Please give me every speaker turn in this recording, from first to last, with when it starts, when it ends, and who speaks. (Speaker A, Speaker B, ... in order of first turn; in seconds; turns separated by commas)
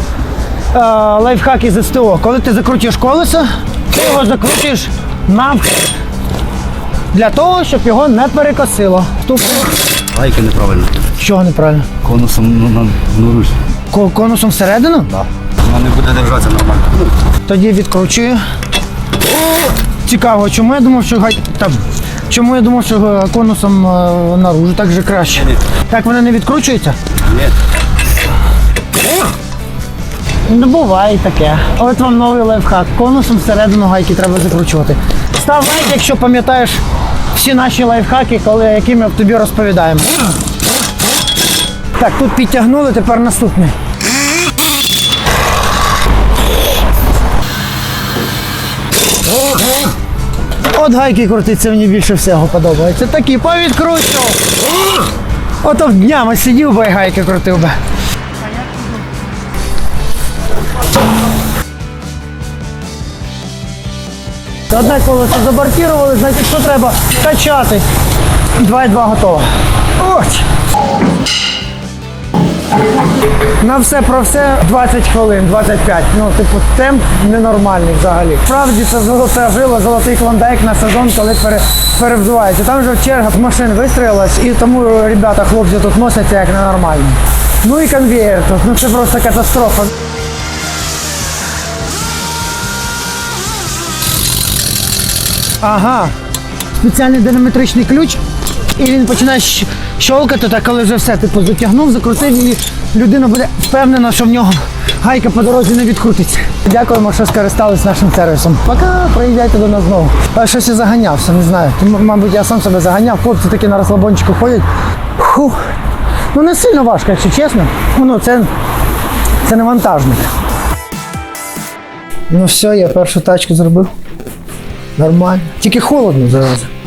Speaker A: 0.7-5.9, Speaker A: 7.1-9.7, Speaker B: 10.1-10.9, Speaker A: 11.2-11.9, Speaker B: 12.0-13.5, Speaker A: 13.9-15.1, Speaker B: 15.1-17.1, Speaker A: 17.5-18.4, Speaker A: 20.0-27.0, Speaker A: 30.4-36.8, Speaker A: 37.3-40.1, Speaker A: 42.0-43.7, Speaker A: 50.7-54.4, Speaker A: 55.6-57.8, Speaker A: 64.7-67.8, Speaker A: 68.6-69.5, Speaker A: 70.0-70.4, Speaker A: 73.6-89.9, Speaker A: 95.6-96.1, Speaker A: 96.8-98.2, Speaker A: 98.8-114.6, Speaker A: 115.2-115.6, Speaker A: 116.3-118.5, Speaker A: 119.4-120.2, Speaker A: 122.3-123.9, Speaker A: 125.0-126.7